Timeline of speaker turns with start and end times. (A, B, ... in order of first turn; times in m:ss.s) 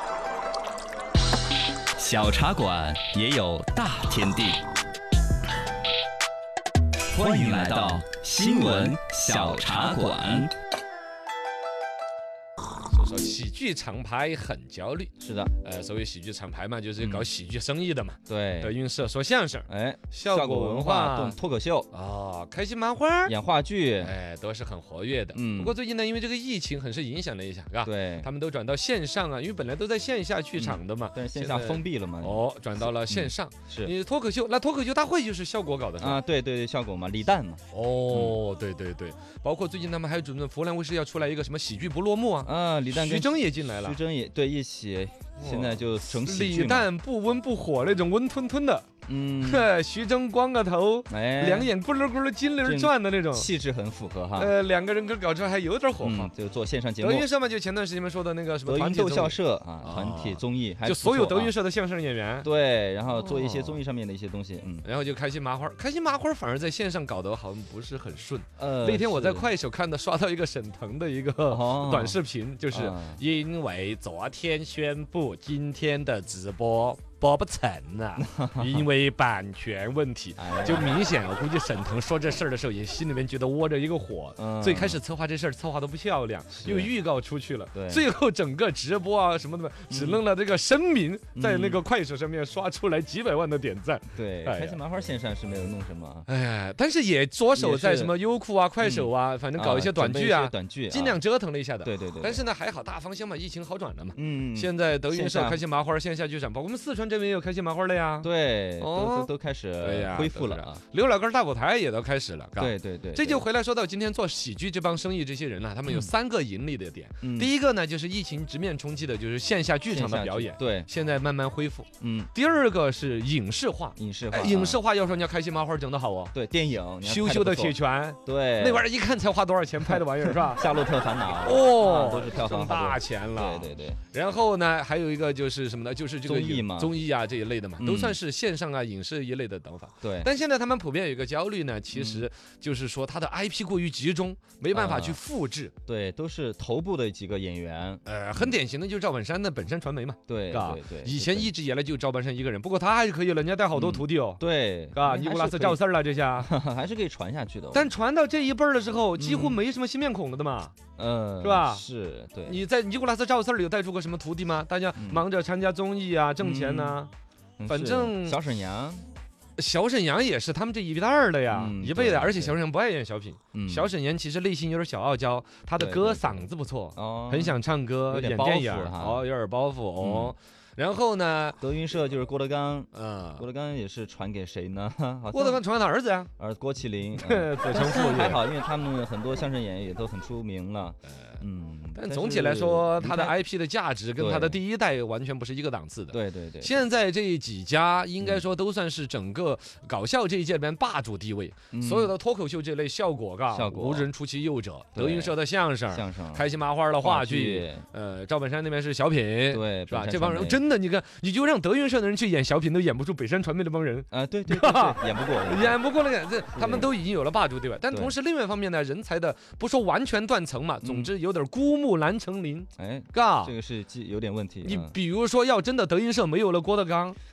0:02.0-0:04.6 A
0:02.9-0:03.5 B
0:07.1-0:10.4 B
0:07.1-0:10.5 A
0:12.9-0:21.4 C
0:15.2-0:15.5 B
0:17.0-0:17.3 B
0:18.3-0:18.7 B
0:19.7-0:21.9 B
0:21.9-0:23.3 C
0:23.2-0:24.2 B
0:24.0-0:36.2 C
0:25.3-0:25.7 B
0:27.8-0:28.3 B
0:30.6-0:33.9 B
0:36.0-0:38.4 B
0:37.7-0:44.0 C
0:42.4-0:46.9 B
0:45.4-0:48.9 C
0:49.1-0:49.7 B
0:49.4-0:53.5 C
0:51.1-0:51.7 B
0:52.6-0:54.6 B
0:54.4-0:56.3 C
0:56.0-0:57.3 B
0:57.0-1:02.5 C
0:58.6-1:01.5 B
1:02.4-1:04.9 B
1:03.2-1:03.8 C
1:04.8-1:34.8 C
1:08.6-1:09.5 B
1:11.5-1:12.2 B
1:12.7-1:13.2 B
1:18.2-1:18.8 B
1:20.4-1:20.9 B
1:24.4-1:25.0 B
1:26.5-1:26.9 B
1:27.7-1:28.1 B
1:29.9-1:30.2 B
1:31.3-1:31.8 B
1:34.1-1:36.2 B
1:36.3-2:06.3 C
1:37.5-1:38.1 B
1:38.8-1:41.2 B
1:41.8-1:42.4 B
1:44.1-1:45.6 B
1:48.2-1:50.8 B
1:52.6-1:53.5 B
1:55.8-1:56.1 B
1:57.2-1:57.5 B
1:59.9-2:00.9 B
2:02.0-2:02.3 B
2:04.0-2:04.8 B
2:06.3-2:08.8 B
2:07.0-2:10.6 C
2:09.9-2:14.0 B
2:11.4-2:25.7 C
2:16.2-2:16.9 B
2:17.8-2:18.2 B
2:20.0-2:20.3 B
2:21.9-2:22.3 B
2:24.7-2:25.2 B
2:25.8-2:28.5 B
2:28.0-2:34.4 C
2:30.3-2:31.5 B
2:33.7-2:35.8 B
2:34.9-2:36.5 C
2:36.4-2:37.9 B
2:37.7-2:40.7 C
2:39.2-2:39.6 B
2:41.0-2:42.6 B
2:41.4-2:41.8 C
2:42.5-2:47.1 C
2:44.9-2:45.2 B
2:46.4-2:47.0 B
2:47.6-2:49.0 B
2:47.7-2:48.4 C
2:49.6-3:01.6 C
2:51.5-2:52.6 B
2:53.5-2:53.9 B
2:55.8-2:59.3 B
3:00.0-3:00.3 B
3:01.6-3:05.6 B
3:02.9-3:03.4 C
3:05.3-3:06.3 C
3:06.4-3:13.3 B
3:07.2-3:08.4 C
3:11.9-3:43.5 C
3:14.2-3:14.6 B
3:16.1-3:16.8 B
3:21.7-3:22.1 B
3:23.5-3:24.1 B
3:24.9-3:27.8 B
3:29.5-3:30.6 B
3:34.1-3:35.8 B
3:36.5-3:36.9 B
3:37.9-3:38.2 B
3:40.8-3:41.1 B
3:42.8-3:45.0 B
3:44.6-3:47.2 C